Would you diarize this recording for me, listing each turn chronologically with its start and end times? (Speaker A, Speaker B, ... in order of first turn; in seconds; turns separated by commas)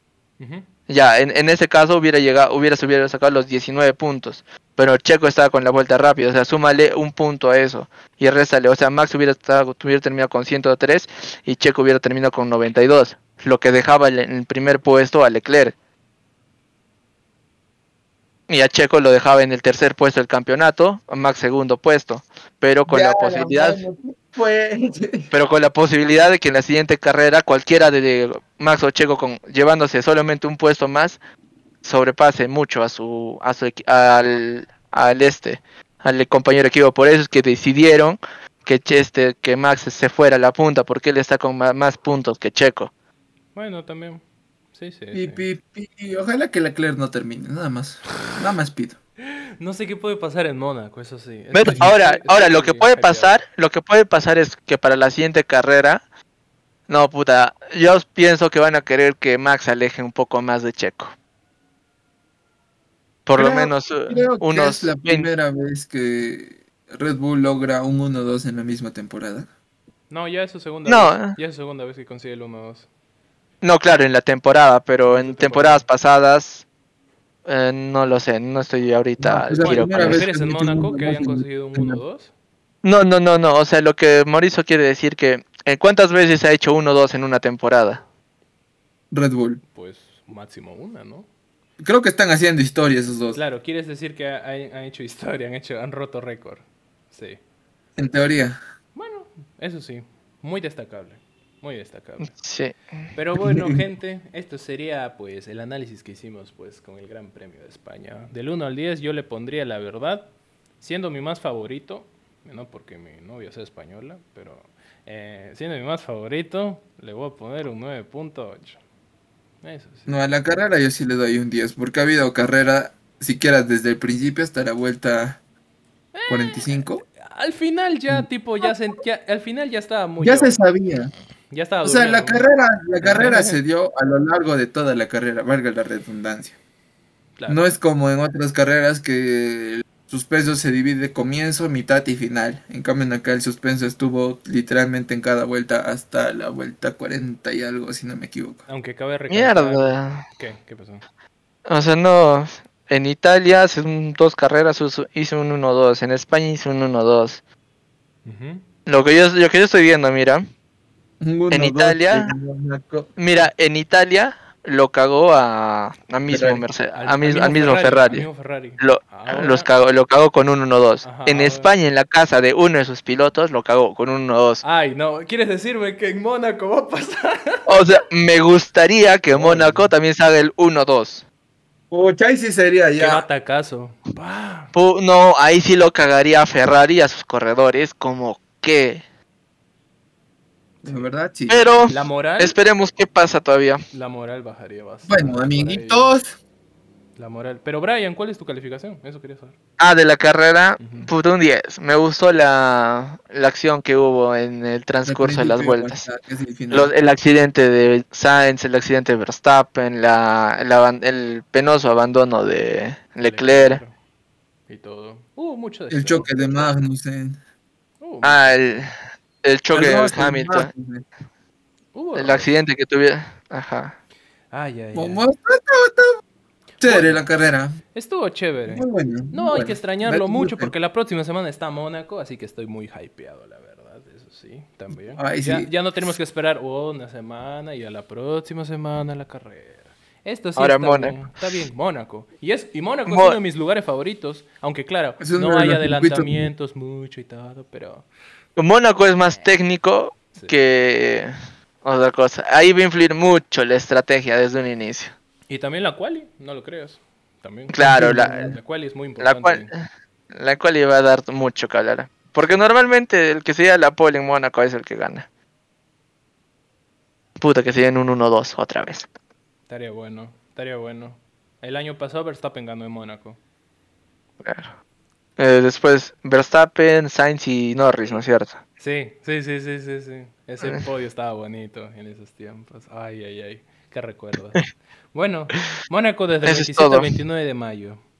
Speaker A: 0.4-0.7, Speaker B: 0.9-15.7, Speaker B: 18.5-23.8, Speaker C: 22.9-25.3, Speaker B: 25.3-31.2, Speaker B: 31.8-42.9, Speaker A: 43.5-44.2, Speaker A: 44.7-45.4, Speaker C: 45.1-49.0, Speaker A: 49.6-53.4, Speaker B: 51.5-56.0, Speaker B: 56.9-61.1, Speaker B: 63.2-65.3, Speaker C: 63.4-69.5, Speaker A: 70.1-72.9, Speaker B: 70.8-71.4, Speaker B: 73.6-76.6, Speaker A: 75.0-75.8, Speaker B: 77.5-80.2, Speaker C: 79.2-82.0, Speaker A: 79.6-82.3, Speaker B: 82.8-88.0, Speaker C: 89.1-89.6, Speaker A: 89.7-91.3, Speaker C: 91.8-93.4, Speaker A: 93.3-97.4, Speaker C: 98.0-98.6, Speaker A: 98.9-102.3, Speaker B: 102.2-102.7, Speaker A: 103.1-118.8, Speaker C: 103.4-103.8, Speaker A: 119.6-120.2, Speaker C: 120.1-125.4, Speaker A: 126.1-130.6, Speaker C: 126.3-127.0, Speaker C: 130.2-131.1, Speaker A: 131.5-132.4, Speaker C: 131.8-136.6, Speaker A: 133.0-133.6, Speaker A: 137.4-137.7, Speaker C: 137.5-148.6, Speaker A: 148.7-151.0, Speaker B: 149.3-150.2, Speaker B: 151.7-157.4, Speaker A: 158.2-158.7, Speaker B: 158.8-160.5, Speaker C: 161.2-163.1, Speaker B: 161.5-162.3, Speaker B: 163.2-168.3, Speaker A: 166.3-169.7, Speaker C: 166.3-166.6, Speaker B: 168.8-174.6, Speaker A: 171.0-171.7, Speaker A: 174.6-177.6, Speaker B: 177.7-181.2, Speaker A: 179.3-179.9, Speaker C: 181.9-183.2, Speaker A: 183.0-184.7, Speaker B: 184.7-189.0, Speaker A: 190.8-191.1, Speaker C: 190.8-191.8, Speaker B: 191.5-193.8, Speaker A: 191.9-192.6, Speaker A: 193.9-196.1, Speaker C: 195.1-196.4, Speaker A: 197.2-199.5, Speaker B: 199.8-206.0, Speaker A: 200.8-201.1, Speaker C: 205.0-206.9, Speaker B: 206.7-213.8, Speaker A: 213.2-213.9, Speaker A: 214.7-216.7, Speaker C: 215.9-217.4, Speaker A: 218.0-218.6, Speaker B: 218.2-220.7, Speaker C: 219.7-221.0, Speaker A: 221.9-222.5, Speaker B: 222.1-223.9, Speaker A: 224.5-225.2, Speaker C: 224.9-226.2, Speaker C: 226.8-227.8, Speaker A: 226.8-227.2, Speaker A: 227.9-248.1, Speaker C: 228.7-230.7, Speaker C: 235.1-235.7, Speaker B: 240.6-241.5, Speaker B: 243.1-243.4, Speaker C: 245.2-246.5, Speaker B: 248.6-255.1, Speaker A: 255.5-259.7, Speaker B: 257.7-258.5, Speaker C: 257.9-258.2, Speaker B: 259.2-265.2, Speaker B: 267.4-269.1, Speaker A: 269.7-273.4, Speaker B: 274.4-274.7, Speaker B: 275.4-278.6, Speaker A: 278.8-288.0, Speaker B: 286.4-287.1